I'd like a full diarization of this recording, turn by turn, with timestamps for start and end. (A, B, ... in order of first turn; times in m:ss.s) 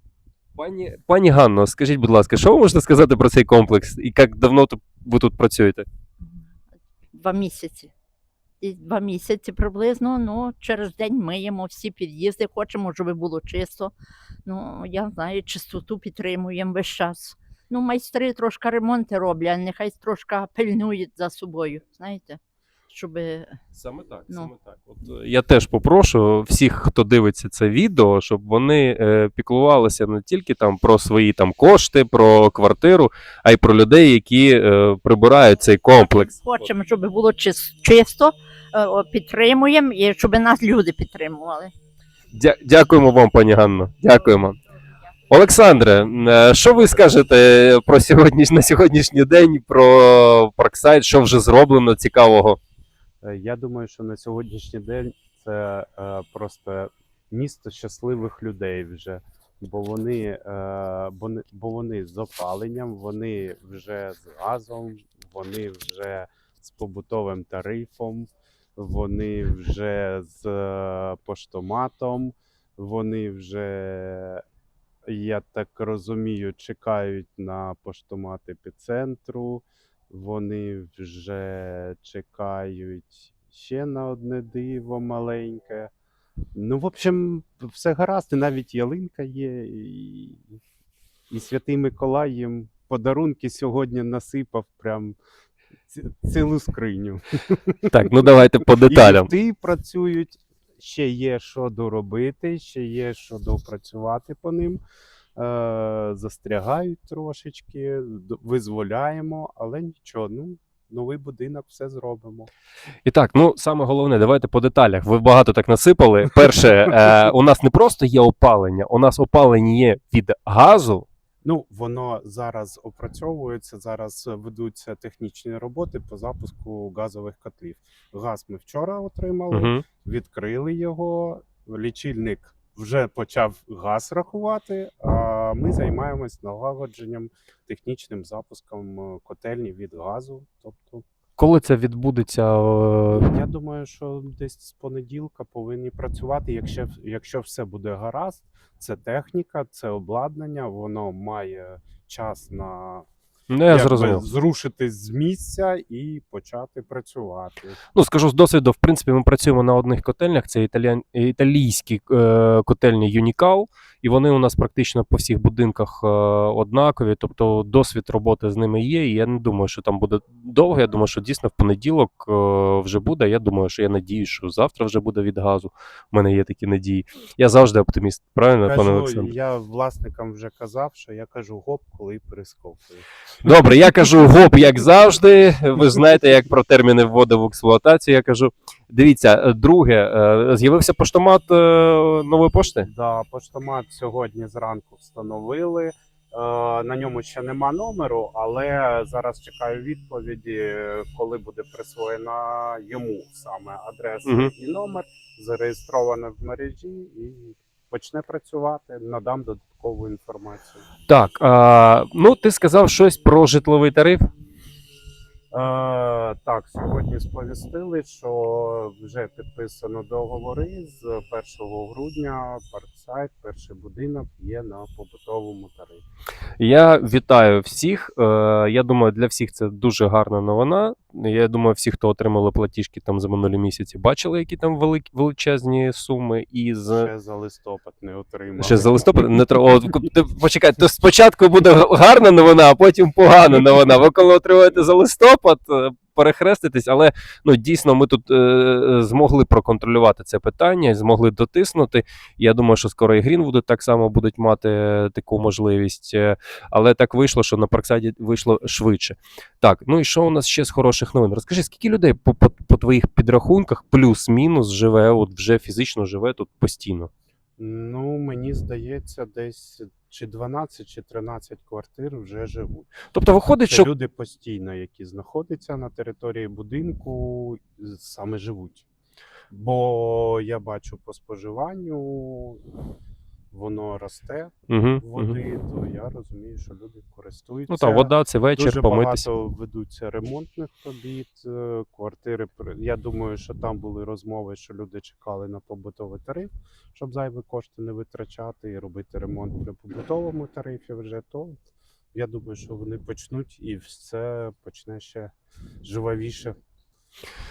0:00.6-0:05.8 A
0:07.1-0:07.9 B
0:08.6-0:13.9 B
0:14.4-0:23.6 B
0:23.7-0:36.7 A
0:35.9-0:41.7 B
0:42.3-0:44.6 A
0:45.3-0:52.6 A
0:53.2-1:14.4 C
1:15.1-1:25.9 C
1:26.5-1:30.6 C
1:31.3-1:35.2 C
1:35.9-1:38.1 C
1:37.9-1:39.3 A
1:38.8-1:44.8 C
1:45.4-1:52.5 C
1:53.0-2:01.1 A
2:01.4-2:21.0 C
2:09.5-2:09.8 A
2:21.4-2:23.3 A
2:23.1-2:33.0 C
2:33.5-2:34.2 A
2:33.7-2:37.8 C
2:37.9-2:59.3 A
2:58.6-3:03.0 C
3:03.4-3:12.9 A
3:12.8-3:30.8 C
3:24.2-3:24.5 A
3:31.1-3:34.3 A
3:35.5-3:46.0 C
3:46.6-3:57.1 A
3:56.9-3:59.1 C
3:58.6-4:27.1 A
4:27.6-4:32.9 C
4:33.1-4:33.9 A
4:33.6-4:38.8 C
4:39.5-4:42.6 C
4:43.5-5:01.6 C
4:44.7-4:45.4 A
4:47.7-4:49.3 A
5:02.1-5:05.3 C
5:05.8-5:06.6 C